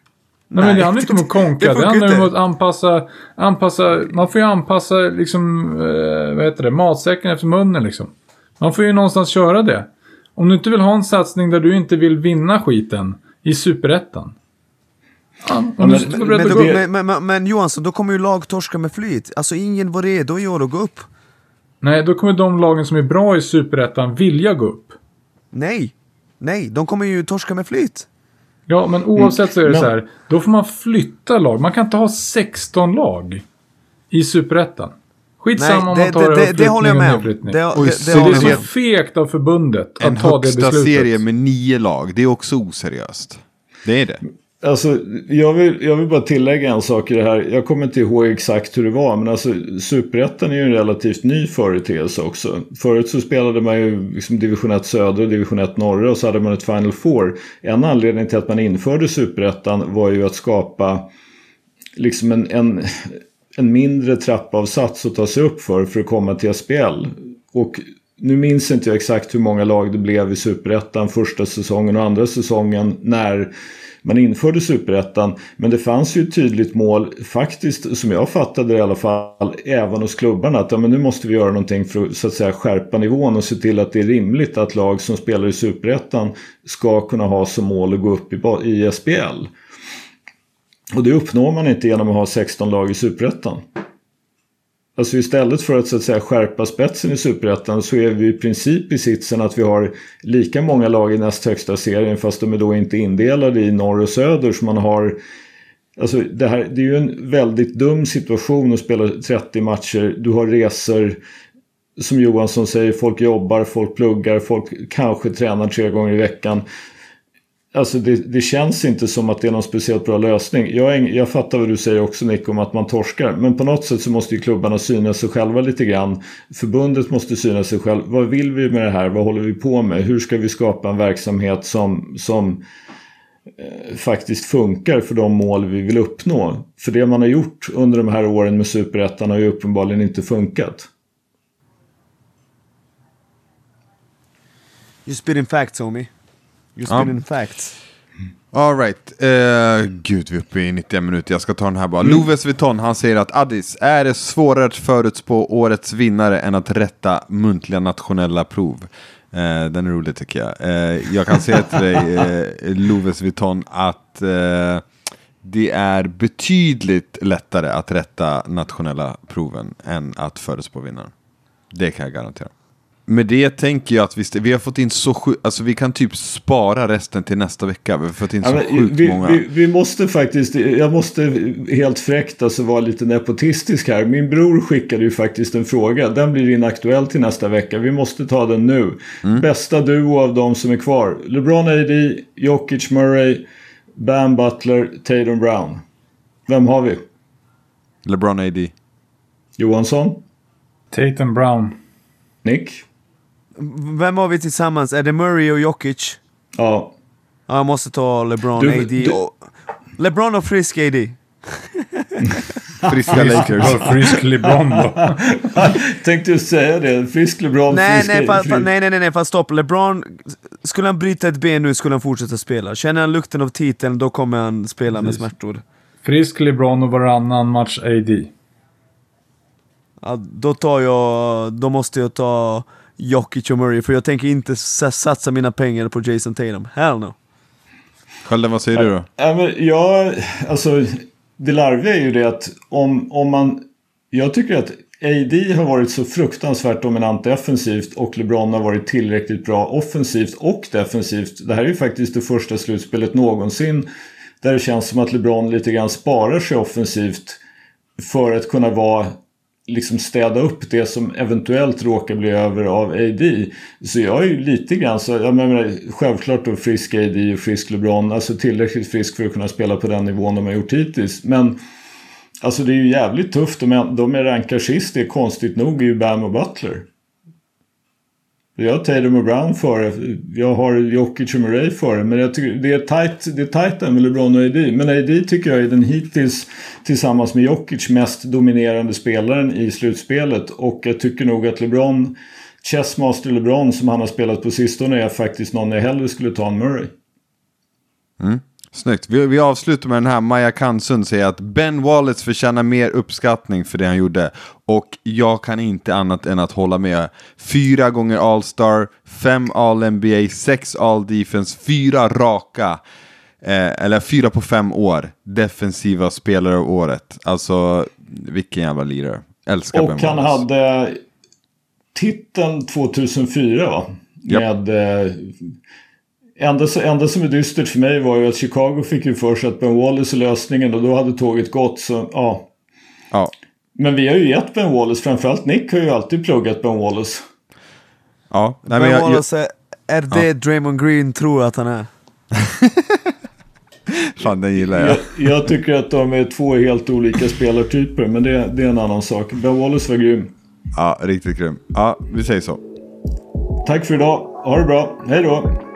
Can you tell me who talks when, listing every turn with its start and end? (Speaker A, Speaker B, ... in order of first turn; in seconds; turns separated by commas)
Speaker A: 0.5-2.3, Speaker B: 0.6-14.3, Speaker B: 15.4-16.8, Speaker C: 15.8-16.8, Speaker A: 15.9-21.1, Speaker B: 21.8-25.0, Speaker A: 25.5-28.1, Speaker B: 28.7-33.4, Speaker C: 29.2-29.9, Speaker B: 34.1-41.2, Speaker A: 35.6-38.6, Speaker D: 37.8-38.7, Speaker D: 40.0-44.2, Speaker C: 44.6-61.1, Speaker C: 62.0-73.5, Speaker C: 74.0-89.5, Speaker C: 90.9-93.6, Speaker C: 95.0-105.2, Speaker C: 106.0-111.2, Speaker C: 112.0-116.7, Speaker C: 117.7-132.6, Speaker C: 133.6-140.9, Speaker A: 145.1-146.1, Speaker A: 146.8-147.8, Speaker D: 146.9-147.2, Speaker D: 148.5-164.9, Speaker D: 165.4-171.1, Speaker D: 171.7-172.5, Speaker D: 173.1-179.4, Speaker C: 178.4-193.4, Speaker C: 194.0-195.8, Speaker C: 196.5-197.0, Speaker D: 198.1-198.7, Speaker C: 199.6-200.2, Speaker B: 200.9-201.8, Speaker C: 202.4-202.8, Speaker A: 203.6-206.2, Speaker C: 206.6-206.9, Speaker A: 207.5-209.3, Speaker C: 208.6-209.2, Speaker A: 210.0-212.2, Speaker C: 212.2-218.7, Speaker D: 212.9-213.9, Speaker B: 213.1-215.2, Speaker A: 217.7-225.6, Speaker B: 226.0-228.3, Speaker A: 230.0-237.2, Speaker D: 238.2-239.1, Speaker C: 238.8-253.9, Speaker C: 254.4-257.4, Speaker C: 258.0-259.2, Speaker C: 259.7-271.6, Speaker C: 272.4-276.9, Speaker C: 278.6-296.9, Speaker D: 298.2-312.8, Speaker D: 313.4-320.4, Speaker C: 319.7-321.0, Speaker C: 321.9-325.4, Speaker C: 326.4-332.5, Speaker C: 333.8-337.2, Speaker D: 338.3-339.2, Speaker A: 338.7-341.9, Speaker D: 342.5-343.0, Speaker D: 343.9-345.0, Speaker C: 344.6-350.3, Speaker D: 350.8-352.6, Speaker C: 353.6-355.5